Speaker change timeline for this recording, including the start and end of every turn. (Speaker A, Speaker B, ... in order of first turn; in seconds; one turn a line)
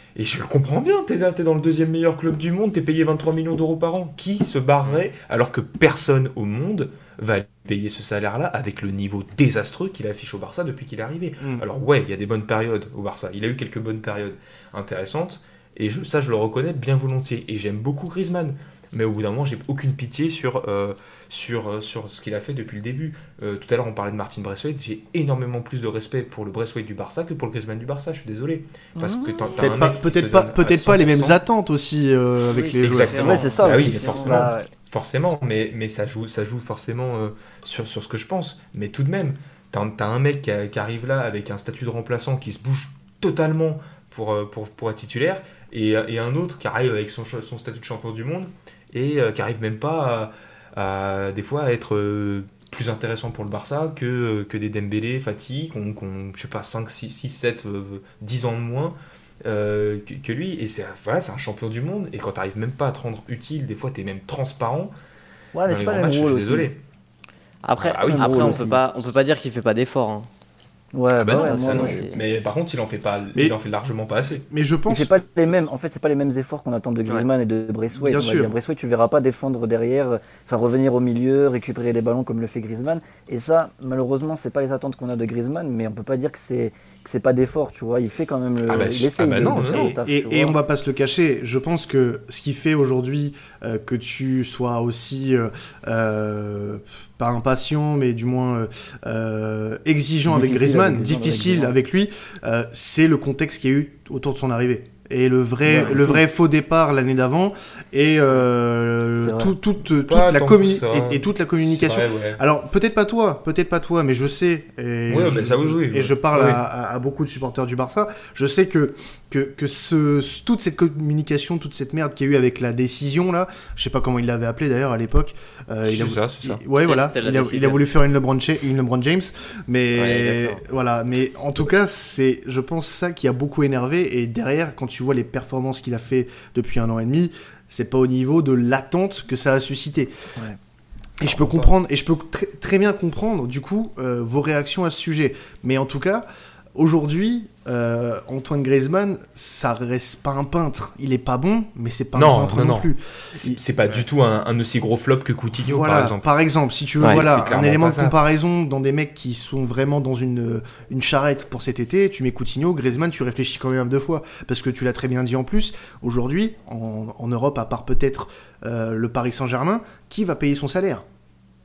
Speaker A: 0.2-31.4
Speaker B: 29.0-29.6
Speaker C: 29.6-34.5
Speaker D: 32.5-34.4
Speaker A: 32.7-64.9
Speaker B: 33.2-34.7
Speaker B: 65.5-66.7
Speaker A: 65.7-66.8
Speaker D: 67.6-70.3
Speaker A: 67.8-68.7
Speaker B: 68.0-68.8
Speaker B: 70.9-72.1
Speaker A: 71.2-74.5
Speaker D: 71.4-72.2
Speaker C: 74.5-75.1
Speaker B: 74.9-90.6
Speaker C: 78.0-78.5
Speaker A: 88.7-90.0
Speaker C: 89.4-140.1
Speaker B: 100.3-101.7
Speaker B: 105.7-106.2
Speaker B: 109.2-109.5
Speaker A: 110.1-112.4
Speaker A: 115.1-116.6
Speaker A: 125.8-126.6
Speaker D: 126.8-127.8
Speaker D: 129.9-130.6
Speaker C: 141.2-154.0
Speaker A: 141.2-141.7
Speaker A: 152.2-156.3
Speaker C: 155.6-171.0
Speaker A: 157.0-158.2